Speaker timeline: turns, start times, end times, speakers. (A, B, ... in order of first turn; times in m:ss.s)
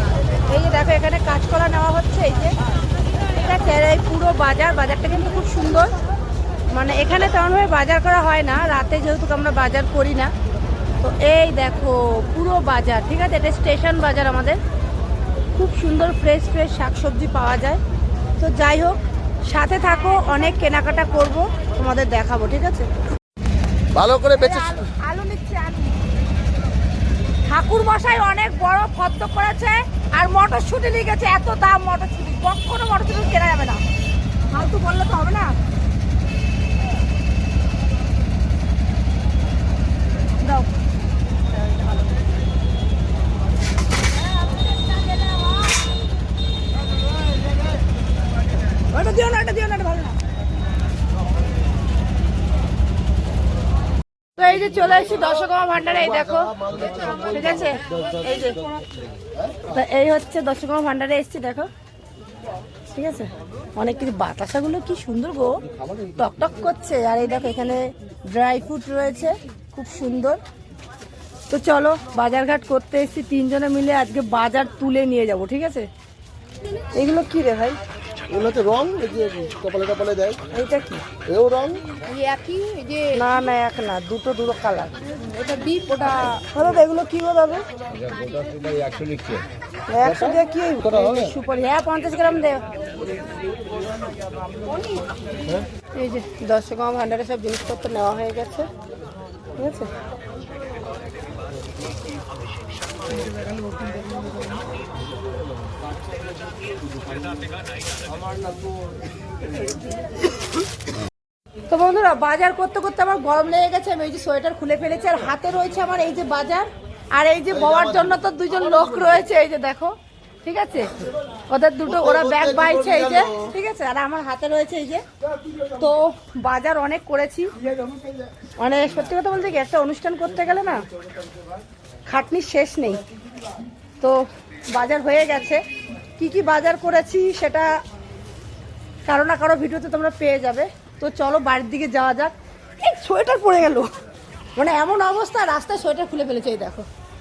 0:00.4-0:02.6 A
0:03.4-0:06.0 A
0:06.7-0:10.3 A
0:11.0-0:14.6 A
0:15.5-0:17.8 A
0:18.4-0:22.9 A
0:24.0-0:26.0 A
0:27.4-0:33.8 A
0:34.5-0:35.6 A
0:40.4-0:40.7 A
0:48.9-0:50.2 A
0:54.4-0:58.6 A
0:59.7-1:01.7 A
1:02.9-1:10.4 A
1:11.5-1:15.9 A
1:16.9-1:17.8 A
1:18.3-1:20.4 B
1:20.5-1:21.0 A
1:21.3-1:21.8 B
1:22.0-1:23.2 C
1:23.1-1:25.1 A
1:25.2-1:26.4 C
1:26.1-1:27.7 A
1:28.0-1:29.4 B
1:29.9-1:32.7 A
1:34.6-1:35.1 C
1:35.9-1:38.7 A
1:39.6-1:39.9 A
1:51.7-2:01.0 A
2:01.5-2:05.0 A
2:05.7-2:07.5 A
2:08.6-2:10.8 A
2:12.1-2:13.0 A
2:14.0-2:15.6 A
2:16.2-2:17.8 A
2:19.0-2:23.9 A
2:24.6-2:26.9 A